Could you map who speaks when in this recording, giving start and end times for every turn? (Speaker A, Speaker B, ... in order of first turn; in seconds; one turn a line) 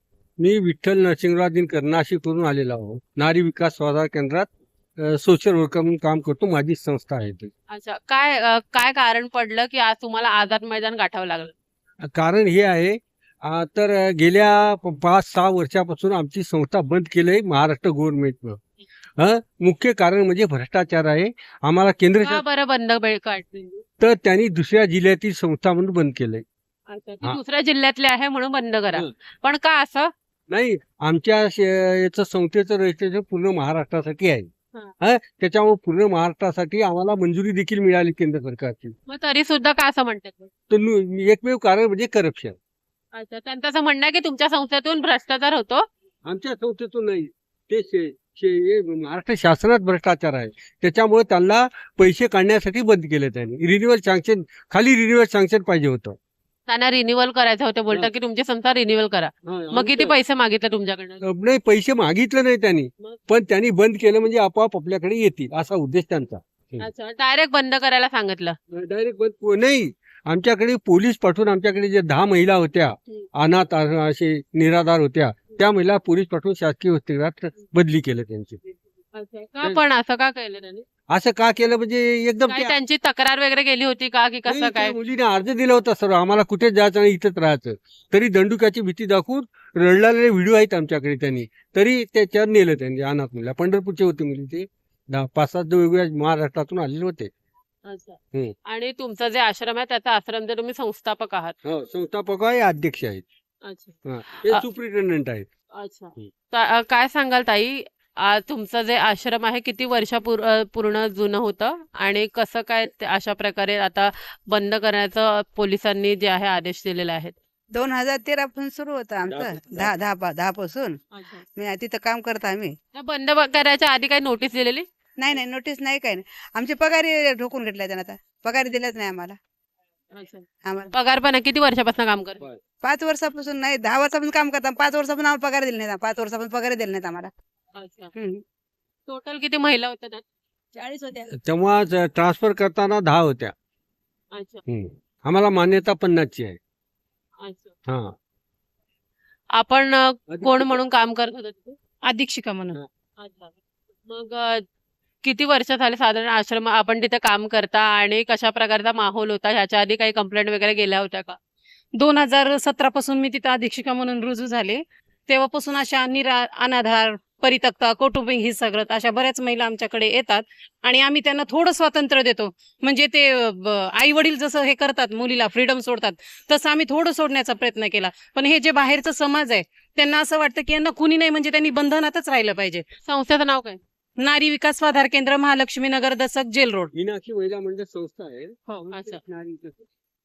Speaker A: 0.4-7.5
Speaker B: 7.7-11.5
Speaker A: 12.0-18.6
Speaker A: 19.2-22.4
Speaker B: 22.2-23.8
Speaker A: 24.0-26.4
Speaker B: 26.9-30.1
Speaker A: 30.5-34.5
Speaker A: 35.0-38.9
Speaker B: 39.1-40.5
Speaker A: 40.7-42.5
Speaker B: 43.1-45.9
Speaker A: 46.2-56.2
Speaker B: 56.7-61.2
Speaker A: 59.5-60.1
Speaker A: 61.2-66.9
Speaker B: 66.8-68.6
Speaker A: 68.7-78.6
Speaker B: 79.1-80.8
Speaker A: 81.1-82.8
Speaker B: 82.5-85.0
Speaker A: 84.5-97.3
Speaker B: 97.8-101.5
Speaker A: 101.6-103.2
Speaker B: 103.6-104.6
Speaker A: 104.0-105.5
Speaker B: 105.8-117.3
Speaker C: 117.7-121.0
Speaker A: 119.3-119.9
Speaker B: 121.1-121.4
Speaker C: 121.5-122.7
Speaker B: 122.9-124.8
Speaker C: 125.2-129.4
Speaker B: 130.1-132.4
Speaker C: 130.6-130.9
Speaker C: 132.8-137.3
Speaker B: 137.7-138.1
Speaker C: 138.2-138.4
Speaker B: 139.1-140.2
Speaker C: 140.8-141.2
Speaker A: 141.3-143.5
Speaker B: 144.3-144.6
Speaker A: 144.7-146.6
Speaker B: 147.4-147.7
Speaker A: 147.9-148.1
Speaker B: 149.5-151.8
Speaker A: 150.3-150.8
Speaker D: 152.1-152.8
Speaker B: 153.2-153.5
Speaker B: 154.1-154.6
Speaker B: 155.2-161.4
Speaker D: 162.0-182.8
Speaker B: 183.0-183.8
Speaker D: 184.2-186.9
Speaker A: 186.9-189.8
Speaker B: 188.9-189.2